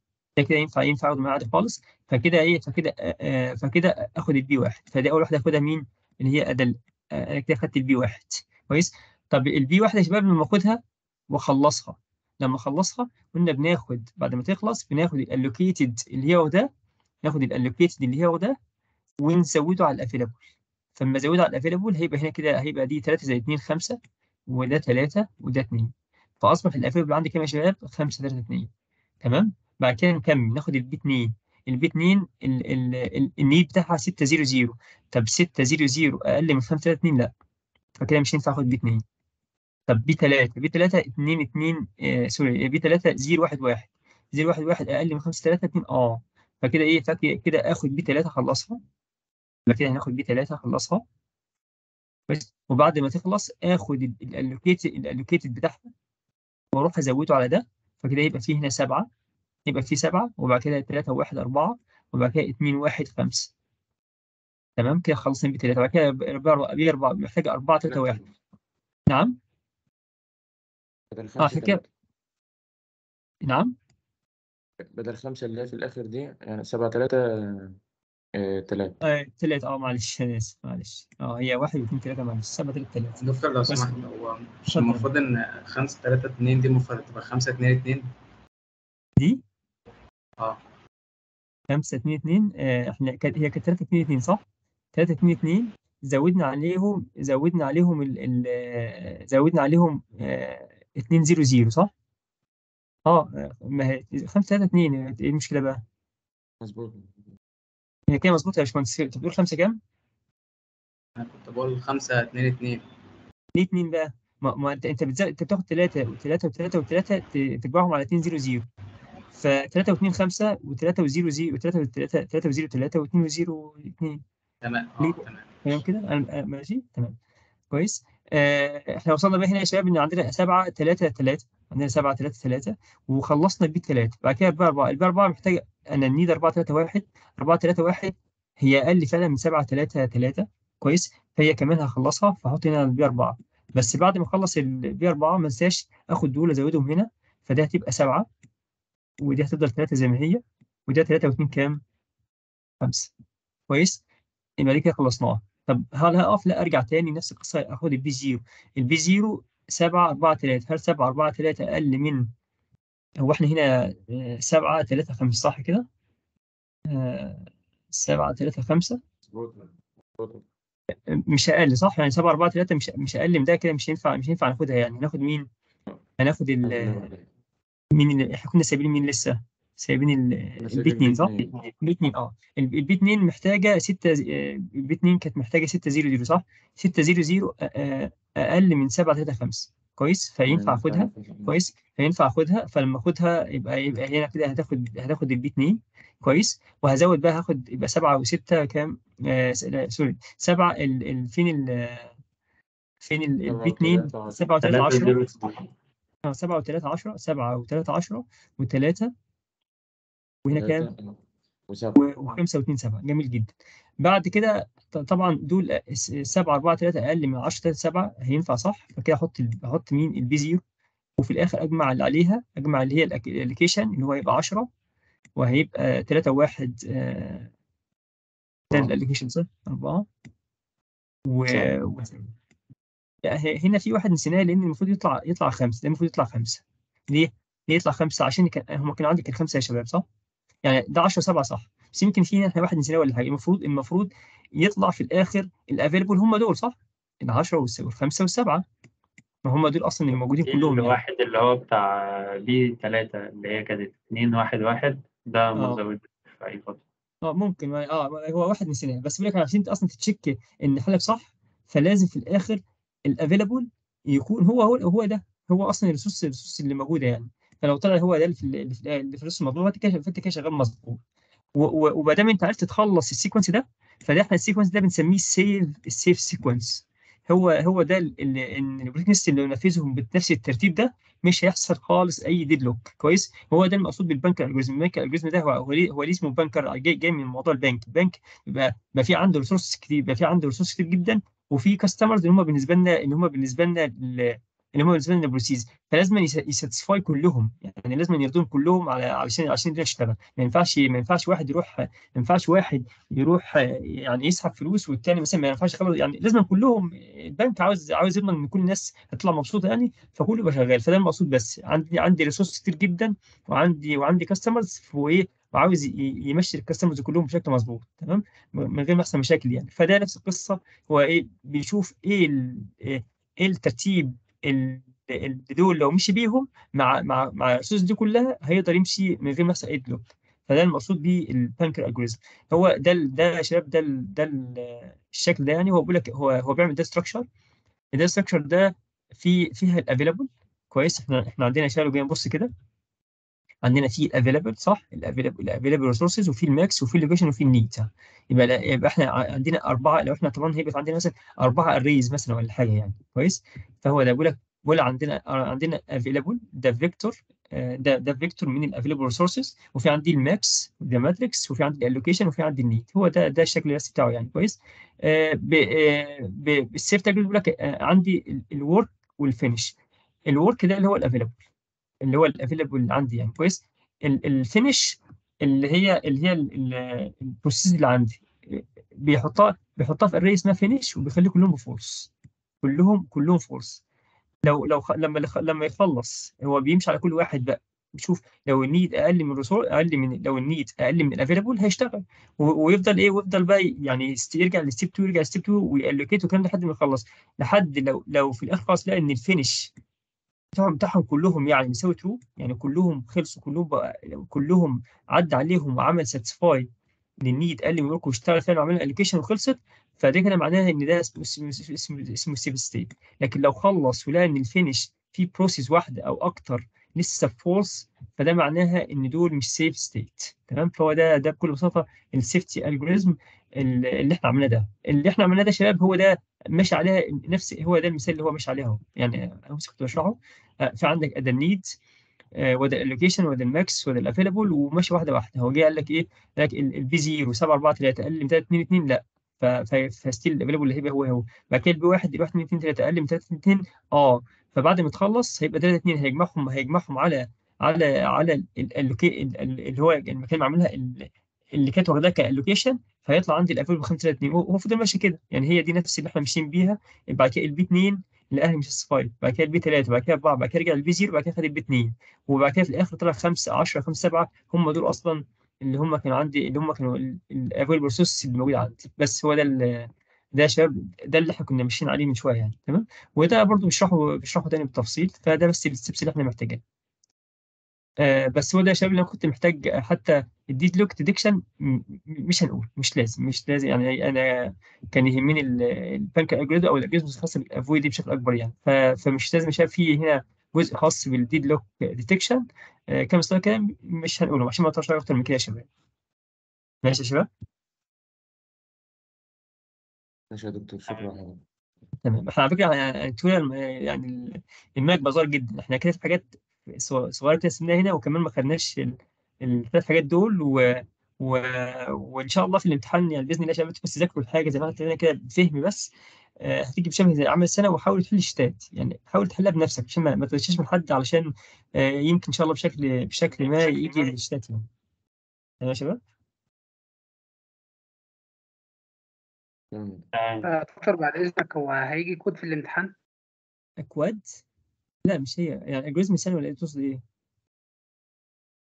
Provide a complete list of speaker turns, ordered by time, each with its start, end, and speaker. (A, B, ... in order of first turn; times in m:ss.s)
0:00.4-0:16.7 A
0:17.2-0:18.6 A
0:19.2-0:20.4 A
0:21.0-0:24.0 A
0:24.5-0:28.7 A
0:29.2-0:37.3 A
0:38.0-0:39.0 A
0:39.9-0:48.8 A
0:49.7-0:51.0 A
0:52.3-0:55.9 A
0:56.7-0:59.1 A
0:59.7-1:03.5 A
1:04.8-1:08.2 A
1:07.9-1:08.3 B
1:09.1-1:09.4 A
1:11.1-1:11.9 B
1:11.4-1:11.8 A
1:13.4-1:13.7 A
1:14.9-1:17.8 B
1:18.4-1:19.0 B
1:19.0-1:24.0 A
1:23.2-1:28.1 C
1:24.7-1:25.1 A
1:31.7-1:34.4 A
1:35.0-1:41.9 A
1:43.1-1:45.8 A
1:46.6-1:47.1 B
1:48.1-1:49.8 A
1:51.2-1:52.8 C
1:53.6-1:58.6 A
1:59.4-2:04.2 A
2:04.6-2:05.8 C
2:05.0-2:07.2 A
2:07.7-2:28.3 A
2:29.2-2:31.8 A
2:32.8-2:33.1 A
2:33.7-2:34.0 A
2:34.6-2:42.3 A
2:43.2-2:45.9 A
2:46.9-2:49.0 A
2:49.3-2:50.4 B
2:51.1-2:55.5 A
2:56.2-2:57.1 A
2:56.6-2:57.2 B
2:57.9-3:22.1 A
3:00.6-3:01.5 B
3:10.5-3:11.5 B
3:23.0-3:25.2 A
3:23.4-3:25.1 B
3:24.6-3:25.7 D
3:26.3-3:29.1 A
3:30.4-3:30.9 A
3:30.5-3:32.0 B
3:32.0-3:40.6 A
3:41.2-3:44.7 A
3:45.4-3:47.5 A
3:48.7-3:50.1 A
3:51.3-3:52.2 A
3:53.2-4:00.0 A
4:00.6-4:08.6 A
4:09.4-4:11.0 A
4:10.4-4:11.9 D
4:12.4-4:16.8 D
4:15.6-4:15.8 A
4:17.3-4:31.0 A
4:31.6-5:37.3 A
5:38.0-5:42.5 A
5:43.6-6:09.7 A
6:10.3-6:11.4 A
6:12.0-6:22.1 A
6:22.6-6:23.8 A
6:24.5-6:39.7 A
6:40.5-6:46.7 A
6:47.2-7:11.8 A
7:12.4-7:56.6 A
7:58.0-8:15.7 A
8:16.8-8:17.3 A
8:20.3-8:21.4 B
8:20.9-8:21.2 D
8:22.0-8:44.6 A
8:43.4-8:44.1 D
8:45.6-8:46.0 A
8:49.7-8:50.0 B
8:50.2-8:50.5 D
8:50.4-8:52.9 E
8:53.8-8:54.4 A
8:55.1-8:57.0 A